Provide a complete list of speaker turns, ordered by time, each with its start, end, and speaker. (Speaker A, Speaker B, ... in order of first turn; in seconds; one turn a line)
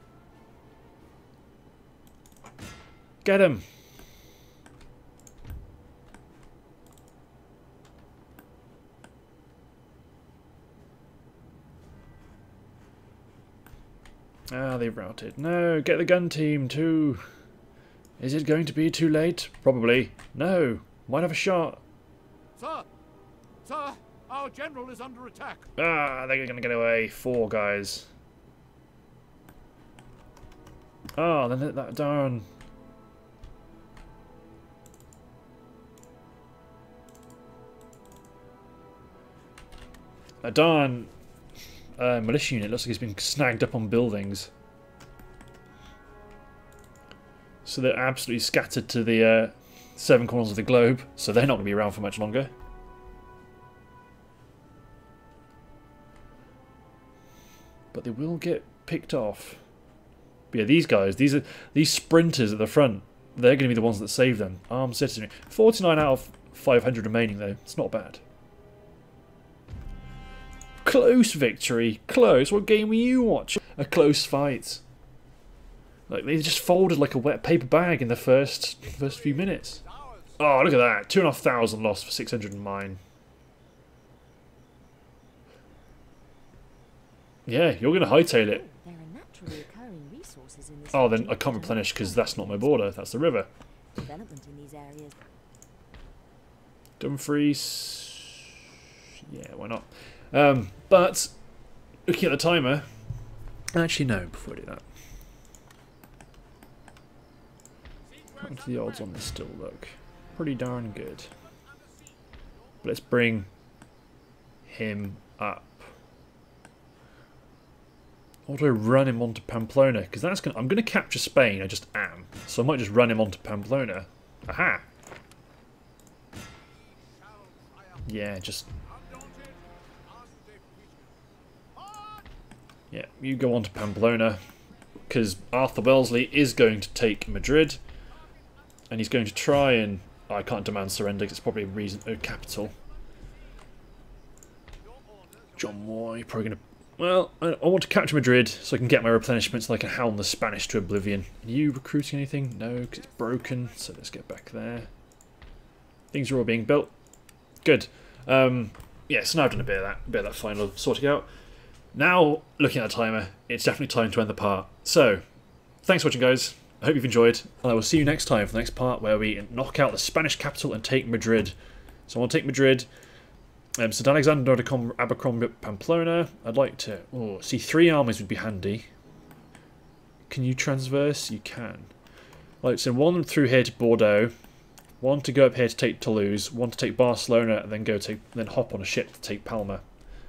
Speaker A: 3.2-3.6
Speaker A: 14.5-17.2
Speaker A: 18.2-21.8
Speaker B: 22.6-22.9
Speaker B: 23.6-25.7
Speaker A: 25.8-28.1
Speaker A: 31.1-32.5
Speaker A: 40.4-41.1
Speaker A: 42.0-44.5
Speaker A: 47.6-52.5
Speaker A: 57.9-59.6
Speaker A: 60.5-68.2
Speaker A: 70.8-74.8
Speaker A: 76.1-79.8
Speaker B: 79.1-80.3
Speaker A: 80.4-83.0
Speaker A: 87.5-88.6
Speaker C: 87.9-93.0
Speaker A: 90.9-93.5
Speaker C: 94.0-95.2
Speaker A: 97.0-98.6
Speaker A: 99.3-101.3
Speaker A: 102.0-102.9
Speaker A: 103.7-104.8
Speaker A: 108.4-111.3
Speaker A: 112.8-113.5
Speaker A: 114.7-115.9
Speaker A: 118.5-124.8
Speaker B: 126.9-128.0
Speaker A: 128.1-128.7
Speaker B: 128.9-131.2
Speaker B: 131.8-132.2
Speaker A: 132.9-134.4
Speaker A: 135.1-137.8
Speaker A: 138.9-142.7
Speaker B: 145.2-145.6
Speaker A: 145.6-154.9
Speaker A: 156.1-156.9
Speaker A: 157.6-161.3
Speaker A: 161.9-165.2
Speaker A: 165.8-171.6
Speaker A: 172.1-172.9
Speaker A: 173.8-178.9
Speaker A: 180.3-181.9
Speaker A: 182.6-184.3
Speaker A: 185.0-189.8